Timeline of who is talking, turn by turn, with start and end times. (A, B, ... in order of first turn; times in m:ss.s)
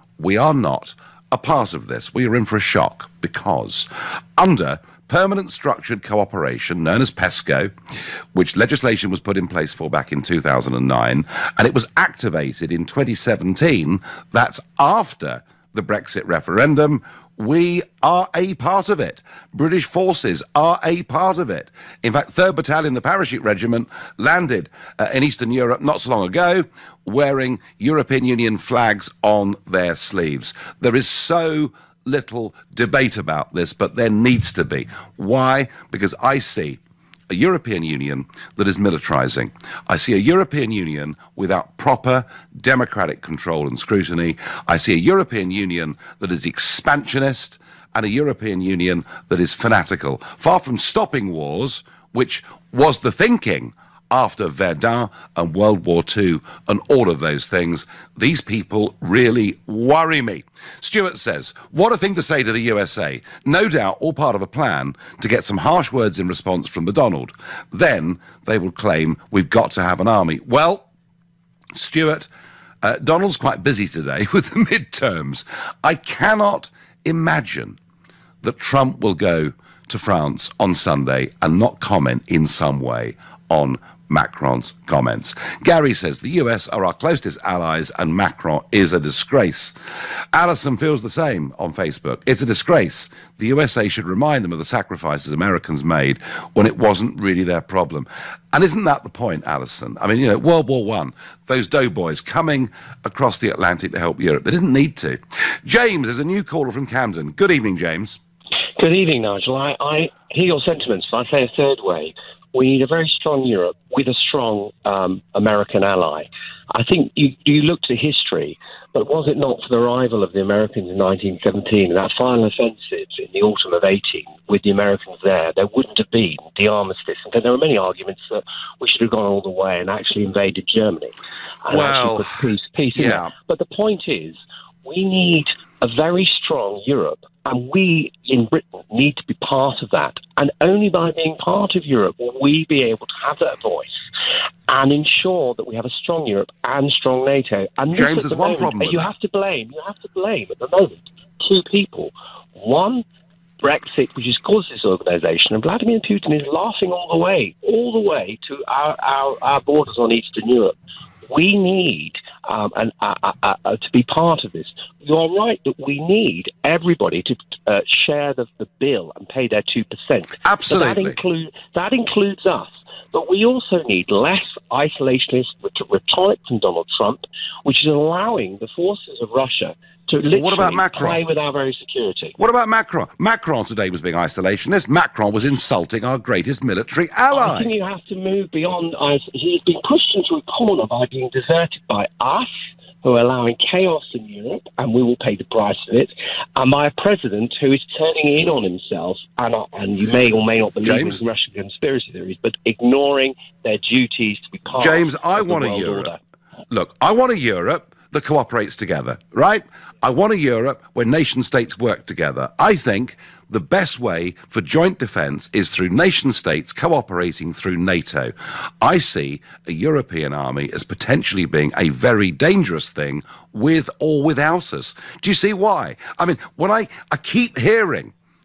0:00.2-0:07.7 A
0:08.3-0:36.8 A
0:37.3-1:10.9 A
1:11.8-1:12.3 A
1:12.8-1:17.8 A
1:18.4-1:29.7 A
1:30.3-1:48.2 A
1:48.8-2:23.9 B
2:11.7-2:12.4 A
2:12.9-2:13.3 A
2:24.7-2:33.0 B
2:27.9-2:29.1 A
2:33.6-2:40.8 B
2:41.3-3:02.4 B
2:50.4-2:51.2 A
3:00.3-3:01.2 A
3:02.4-3:07.7 A
3:07.3-3:12.5 B
3:13.0-3:26.2 B
3:20.8-3:21.2 A
3:24.8-3:26.1 A
3:26.7-3:48.1 A